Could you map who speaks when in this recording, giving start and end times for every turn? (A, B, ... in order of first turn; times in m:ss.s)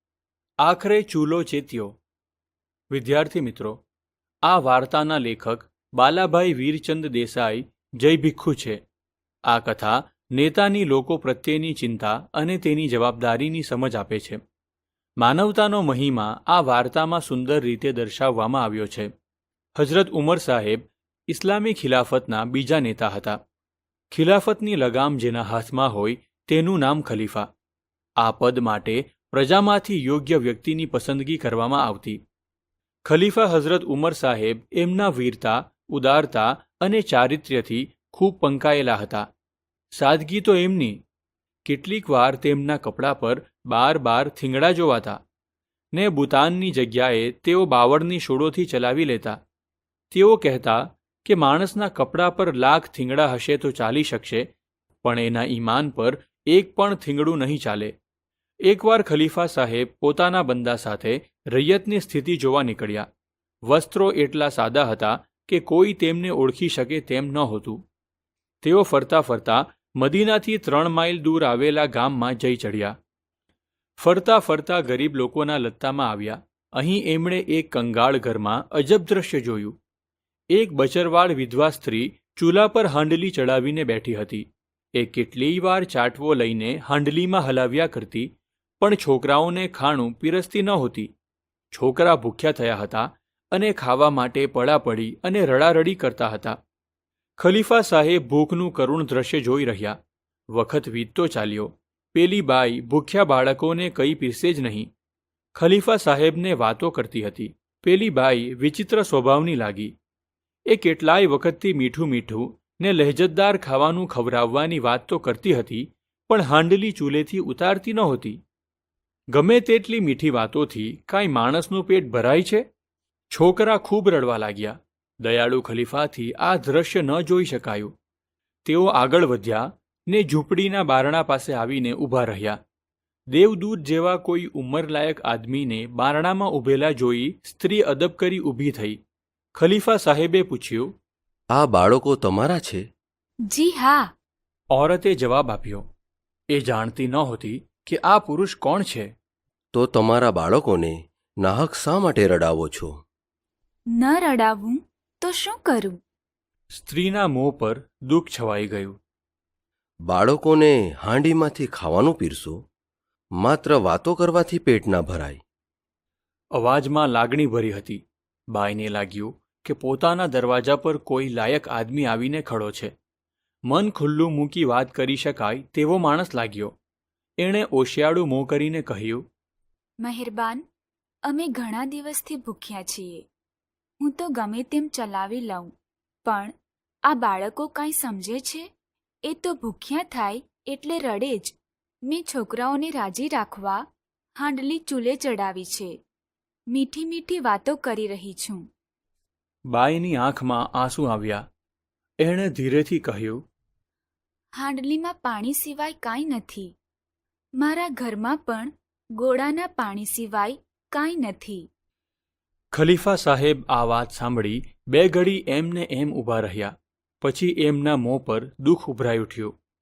0:00.6-0:01.9 A
0:02.9-0:03.8 A
0:04.4-0:08.8 A
0:09.5-0:14.4 A
0:15.2-0:19.1 A
0:19.8-0:23.4 A
0:24.1-0:27.5 A
0:28.2-0:32.2 A
0:33.0-0:39.3 A
0:39.9-0:41.0 A
0:41.6-0:45.2 A
0:45.9-0:49.4 A
0:50.1-0:54.5 A
0:55.0-0:57.9 A
0:58.6-1:03.1 A
1:03.6-1:07.8 A
1:08.6-1:12.9 A
1:14.0-1:19.7 A
1:20.5-1:28.3 A
1:28.8-1:31.1 A
1:31.7-1:36.6 A
1:37.4-1:40.0 A
1:40.5-1:44.9 A
1:45.5-1:49.9 A
1:50.7-1:58.4 A
1:59.3-2:02.6 A
2:03.3-2:07.9 A
2:08.6-2:12.6 A
2:13.3-2:19.0 A
2:19.6-2:20.9 A
2:21.5-2:22.8 B
2:23.5-2:24.1 C
2:24.7-2:25.8 A
2:26.5-2:29.1 A
2:29.7-2:33.0 B
2:33.9-2:36.0 C
2:36.7-2:39.0 A
2:40.1-2:42.6 B
2:43.4-2:45.4 B
2:46.5-2:48.0 A
2:48.5-2:52.9 A
2:53.7-2:56.7 A
2:57.4-2:59.2 A
3:00.0-3:00.6 C
3:01.2-3:03.2 C
3:04.0-3:05.7 C
3:06.2-3:06.5 C
3:07.1-3:08.7 C
3:09.2-3:11.6 C
3:12.1-3:13.8 C
3:14.4-3:16.0 C
3:16.7-3:18.6 C
3:19.7-3:21.4 A
3:22.2-3:23.4 A
3:24.6-3:26.7 C
3:27.6-3:31.7 C
3:32.7-3:39.5 A